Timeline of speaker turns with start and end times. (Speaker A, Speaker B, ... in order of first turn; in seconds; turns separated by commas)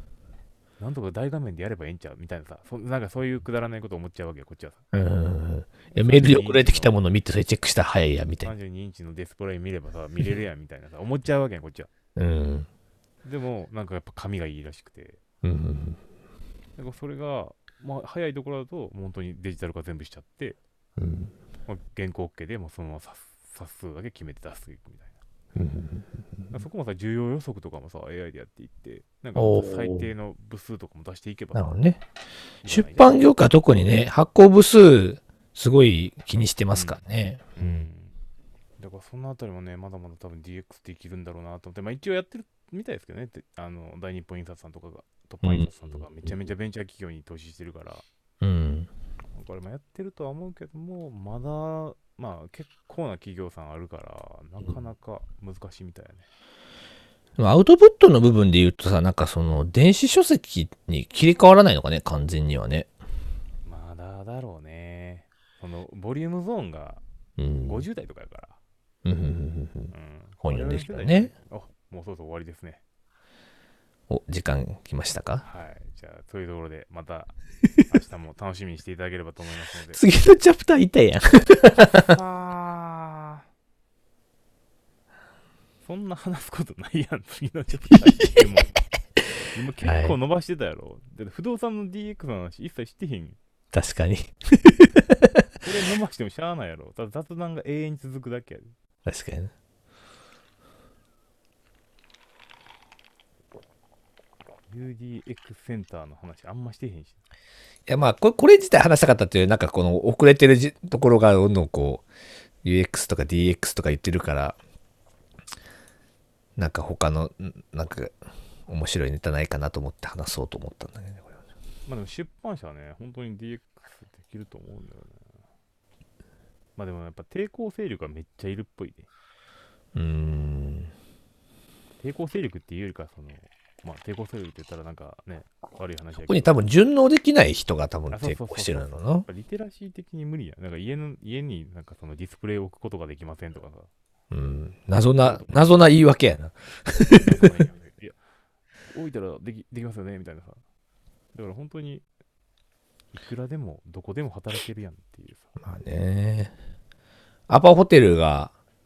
Speaker A: 0.8-4.8, Speaker B: 4.9-8.5, Speaker A: 5.9-7.0, Speaker A: 8.4-11.9, Speaker B: 12.2-12.7, Speaker A: 13.2-15.2, Speaker B: 15.4-16.0, Speaker A: 16.8-20.6, Speaker B: 21.0-21.3, Speaker A: 21.7-25.2, Speaker B: 25.6-26.1, Speaker A: 26.5-31.8, Speaker B: 29.4-30.1, Speaker B: 31.5-32.0, Speaker A: 32.6-33.2, Speaker B: 32.6-37.9, Speaker A: 36.7-37.0, Speaker A: 37.6-38.1, Speaker A: 38.8-48.0, Speaker B: 45.4-46.3, Speaker B: 48.4-48.9, Speaker A: 49.4-56.3, Speaker B: 57.4-62.9, Speaker A: 63.6-67.0, Speaker B: 67.4-67.9, Speaker A: 67.6-68.6, Speaker B: 69.0-71.3, Speaker A: 69.9-72.8, Speaker B: 74.1-75.4, Speaker A: 75.4-77.3, Speaker A: 77.9-80.0, Speaker B: 79.9-82.1, Speaker A: 81.8-83.4, Speaker A: 85.8-88.8, Speaker A: 89.5-93.4, Speaker B: 89.8-90.1, Speaker B: 93.7-95.4, Speaker A: 95.6-98.7, Speaker B: 99.1-99.5, Speaker A: 104.7-107.2, Speaker B: 107.9-112.0, Speaker B: 112.6-114.6, Speaker B: 116.6-118.2, Speaker B: 118.7-121.4, Speaker A: 121.9-125.2, Speaker A: 126.8-129.1, Speaker B: 129.9-130.9, Speaker A: 132.0-136.6, Speaker B: 136.3-139.3, Speaker A: 138.1-143.9, Speaker B: 144.3-147.5, Speaker A: 145.2-145.6, Speaker A: 147.2-148.2, Speaker A: 148.9-150.6, Speaker A: 151.3-152.1, Speaker A: 153.1-155.5, Speaker B: 155.6-156.5, Speaker B: 157.5-158.5